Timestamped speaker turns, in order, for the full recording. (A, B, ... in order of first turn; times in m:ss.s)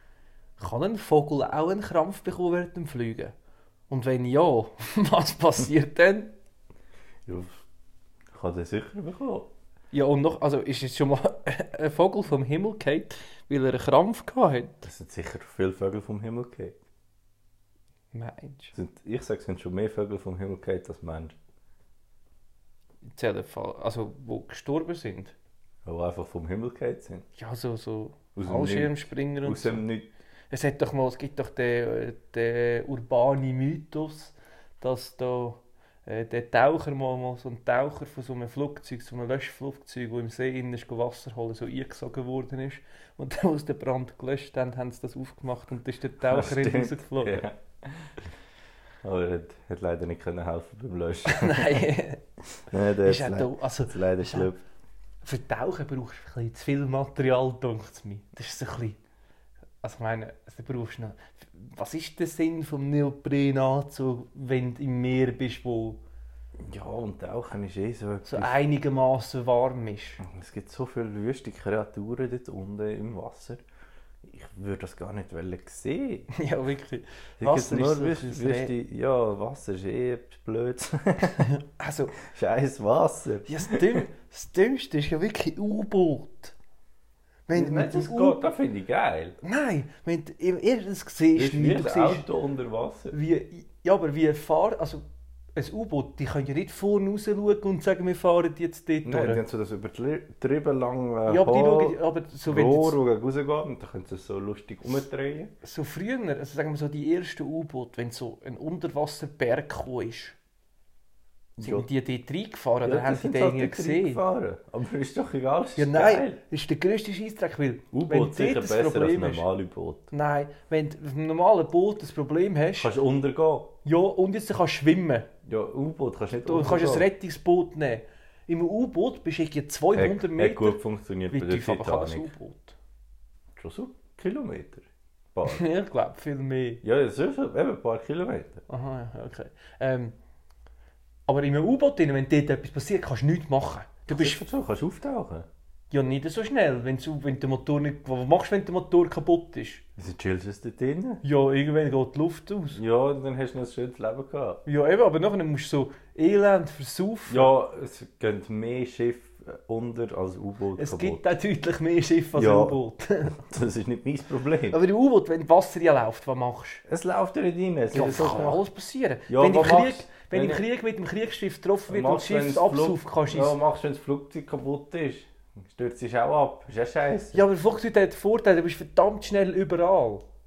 0:00.6-0:03.3 A
0:03.9-0:06.3 A
0:07.3-0:07.6 B
0:08.3-0:09.5 B
0:09.9-0:14.9 A
0:14.8-0:16.8 B
0:18.1-0:18.8 A
0:18.7-0:21.4 B
0:23.1-0:25.4 A
0:25.8-0:27.3 B
0:27.4-0:29.8 A
0:28.4-0:30.1 B
0:30.5-0:47.4 A
0:46.2-0:48.3 B
0:49.0-0:51.9 B
0:51.3-0:52.2 A
0:52.7-0:54.6 B
0:53.0-0:54.5 A
0:55.2-0:59.0 A
0:59.8-1:06.0 A
1:06.6-1:08.6 B
1:08.2-1:10.2 A
1:10.2-1:13.6 B
1:14.2-1:16.3 B
1:16.3-1:18.7 A
1:17.4-1:21.5 B
1:21.4-1:22.2 A
1:22.2-1:24.0 B
1:23.5-1:26.6 A
1:27.5-1:28.4 A
1:27.5-1:29.4 B
1:29.4-1:32.3 A
1:31.4-1:33.2 B
1:33.1-1:35.0 A
1:35.6-1:39.4 A
1:39.0-1:45.5 B
1:41.3-1:43.0 A
1:45.6-1:50.4 A
1:51.6-1:51.9 B
1:51.6-1:54.2 A
1:52.8-1:56.4 B
1:55.8-1:59.4 A
1:57.9-2:00.1 B
2:00.1-2:02.9 A
2:02.8-2:03.7 B
2:03.8-2:05.3 A
2:05.4-2:07.1 B
2:06.4-2:10.8 A
2:10.0-2:12.3 B
2:11.3-2:12.8 A
2:13.6-2:15.6 B
2:15.5-2:16.8 A
2:16.8-2:18.6 B
2:18.7-2:20.1 A
2:21.3-2:24.4 A
2:24.1-2:25.5 B
2:25.9-2:29.8 A
2:30.0-2:31.2 B
2:31.2-2:32.8 A
2:32.8-2:34.6 B
2:34.7-2:37.5 A
2:37.3-2:41.3 B
2:40.8-2:43.4 A
2:42.4-2:42.8 B
2:43.4-2:44.8 B
2:44.7-2:46.8 A
2:46.9-2:48.6 B
2:47.9-2:53.6 A
2:49.3-2:50.6 B
2:51.9-2:57.4 B
2:57.3-3:00.2 A